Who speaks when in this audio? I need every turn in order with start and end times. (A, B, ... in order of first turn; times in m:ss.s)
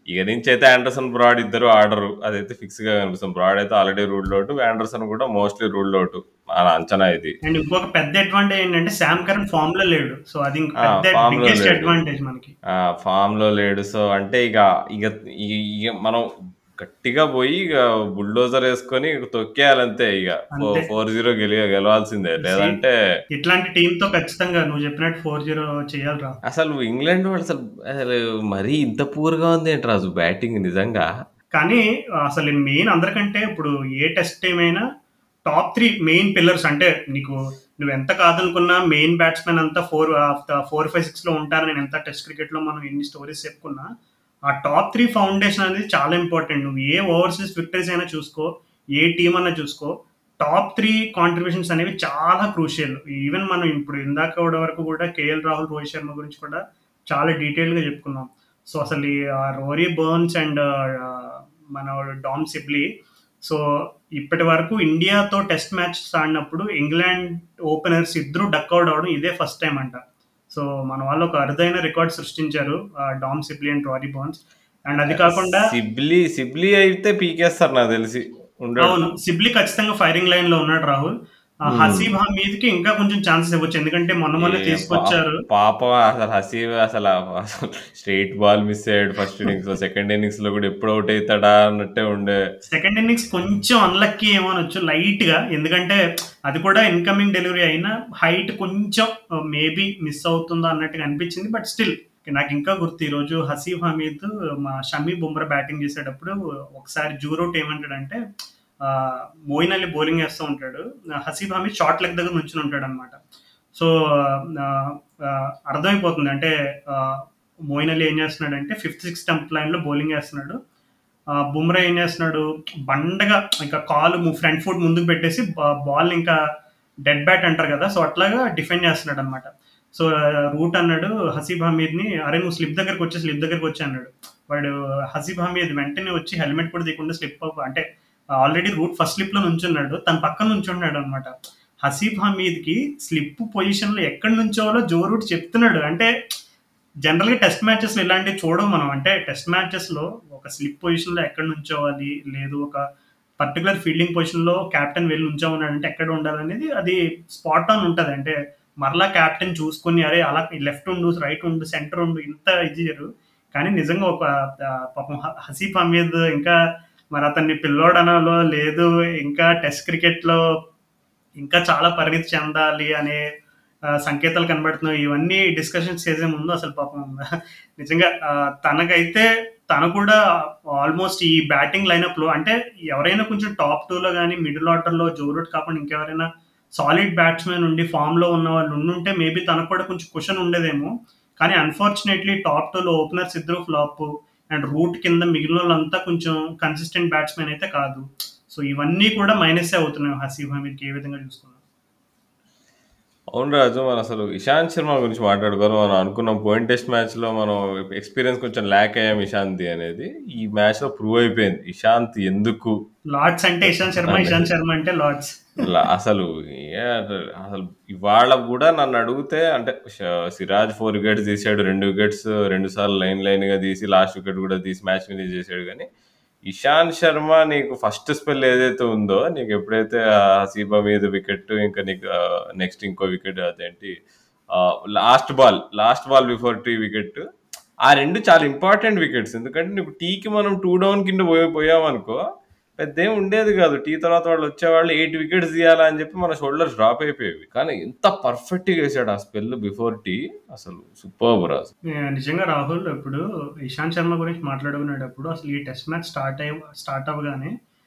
0:00.1-0:07.4 A
0:07.4-0:12.5 B
0:10.8-0:11.9 A
0:13.0-0:16.3 A
0:16.8-0:22.9 A
0:20.5-0:20.9 B
0:22.4-0:22.8 B
0:23.4-0:26.4 B
0:26.5-0:31.1 A
0:31.6-0:34.8 B
0:35.5-0:43.9 B
0:44.5-1:02.9 B
1:04.2-1:15.7 B
1:15.1-1:19.0 A
1:18.8-1:21.1 B
1:21.7-1:25.4 B
1:21.7-1:22.1 A
1:24.4-1:32.4 A
1:32.7-1:48.2 B
1:48.8-1:53.2 B
1:53.8-1:57.2 B
1:57.7-2:00.6 B
2:01.5-2:06.4 B
2:07.1-2:17.8 B
2:18.4-2:21.3 B
2:21.9-2:26.1 B
2:27.1-2:32.8 B
2:33.4-2:44.2 B
2:45.0-2:46.6 B
2:47.2-2:50.4 B
2:51.4-2:53.2 B
2:54.0-2:57.3 B
2:57.8-2:58.1 B
2:58.6-3:00.2 B
3:00.8-3:06.3 B
3:06.8-3:21.6 B
3:23.3-3:32.8 A
3:33.1-3:35.4 B
3:33.6-3:34.5 A
3:35.6-3:45.9 A
3:46.5-3:53.9 A
3:54.6-3:57.2 A
3:57.9-4:02.2 A
4:02.8-4:11.7 A
4:12.0-4:17.5 B